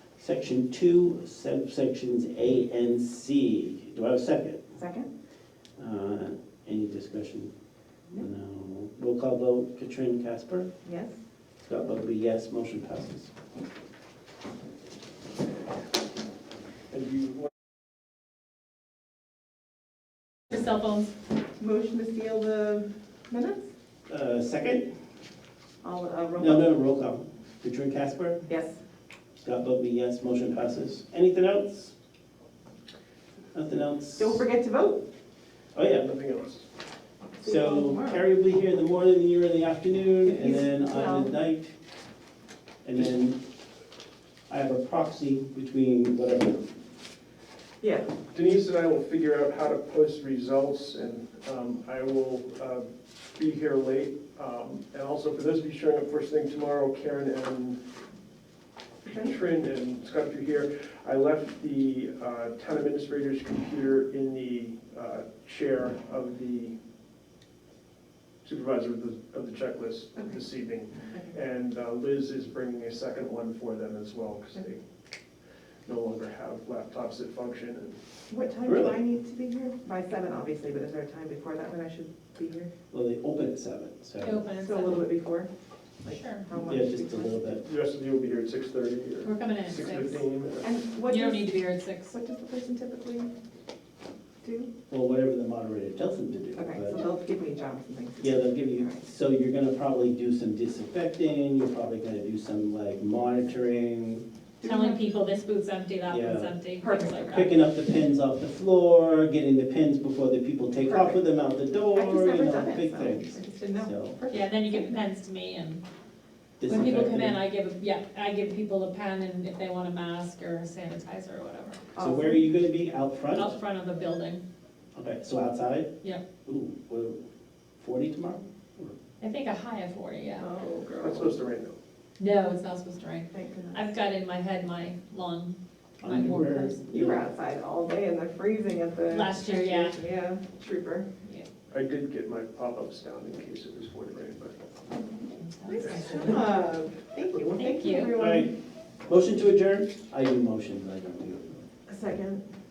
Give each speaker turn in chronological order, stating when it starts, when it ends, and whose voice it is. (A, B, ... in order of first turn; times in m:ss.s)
0:00.2-0:04.6 A
0:04.7-0:05.1 B
0:05.8-0:07.5 A
0:08.1-0:10.7 A
0:10.8-0:11.2 B
0:11.6-0:13.3 A
0:16.9-0:17.5 C
0:20.5-0:21.1 D
0:21.6-0:23.7 B
0:24.1-0:24.9 A
0:25.8-0:26.7 B
0:26.4-0:28.4 A
0:28.5-0:28.8 B
0:29.4-0:31.9 A
0:33.5-0:34.4 A
0:34.2-0:35.0 B
0:35.7-0:36.1 A
0:35.8-0:36.6 C
0:37.4-0:38.2 B
0:37.4-0:41.7 A
0:40.2-0:41.3 B
0:42.8-0:43.4 A
0:44.5-0:46.7 A
0:47.8-0:48.1 B
0:48.3-0:52.8 C
0:53.4-0:57.8 C
0:59.0-1:06.7 C
1:08.4-1:14.8 C
1:15.8-1:18.0 C
1:18.3-1:22.7 B
1:18.6-1:19.0 A
1:22.9-1:24.4 A
1:24.2-1:25.1 D
1:24.6-1:25.5 B
1:26.0-1:27.6 B
1:26.0-1:26.4 D
1:26.6-1:27.6 A
1:27.6-1:30.7 C
1:29.2-1:30.2 D
1:30.6-1:33.3 B
1:31.0-1:32.1 D
1:34.4-1:34.7 B
1:34.9-1:37.0 A
1:36.6-1:39.0 B
1:38.2-1:44.2 A
1:44.6-1:45.0 B
1:44.6-1:47.5 D
1:46.1-1:46.5 A
1:46.8-1:47.5 B
1:47.3-1:54.2 A
1:50.8-1:51.2 B
1:51.9-1:55.0 B
1:54.3-1:55.8 D
1:56.6-1:57.4 A
1:56.7-2:01.8 D
2:01.9-2:02.4 B
2:02.0-2:03.5 A
2:03.3-2:04.4 D
2:04.9-2:05.9 A
2:06.4-2:07.2 A
2:07.8-2:08.9 A
2:09.2-2:10.5 D
2:10.4-2:11.4 B
2:11.0-2:11.8 C
2:12.2-2:16.8 D
2:13.3-2:13.9 B
2:16.0-2:17.2 A
2:16.9-2:21.1 B
2:19.1-2:20.0 D
2:21.7-2:24.6 C
2:24.9-2:28.5 B
2:25.4-2:26.6 D
2:25.8-2:26.2 C
2:27.6-2:28.2 D
2:28.2-2:28.5 A
2:29.0-2:31.6 A
2:31.9-2:32.4 B